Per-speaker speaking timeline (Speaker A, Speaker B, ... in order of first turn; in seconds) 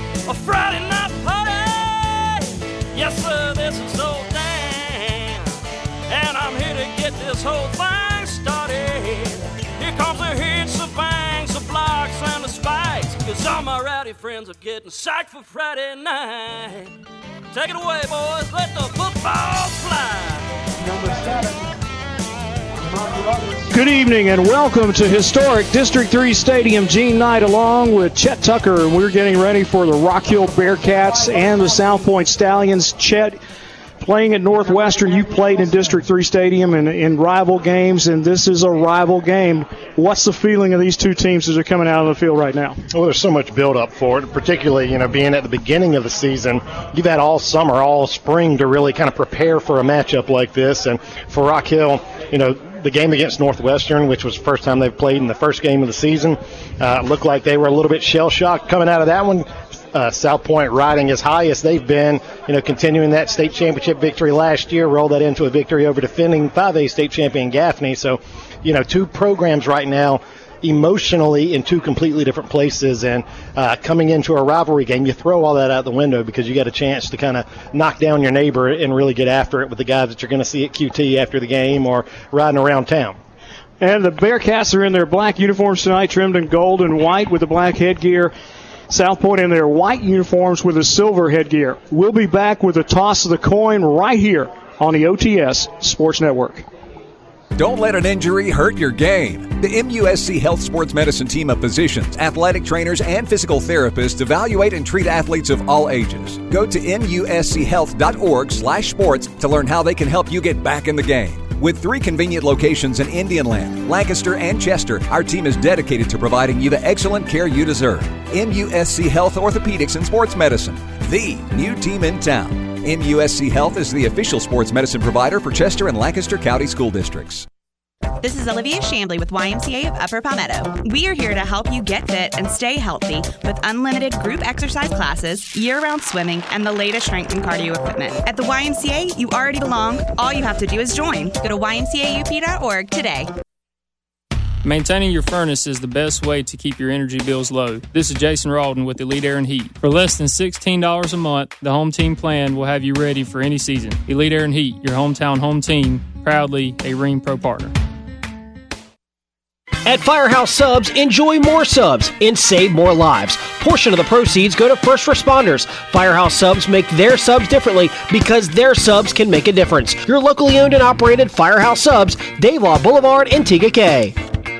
Speaker A: 0.2-5.5, 6.1-16.9, 17.5-20.5
Speaker B: 23.7-33.4, 34.0-42.8, 83.8-88.3, 88.9-96.7
Speaker C: 42.9-83.2
Speaker D: 97.5-127.5
Speaker E: 128.2-143.3
Speaker F: 144.6-157.8
Speaker G: 159.8-174.1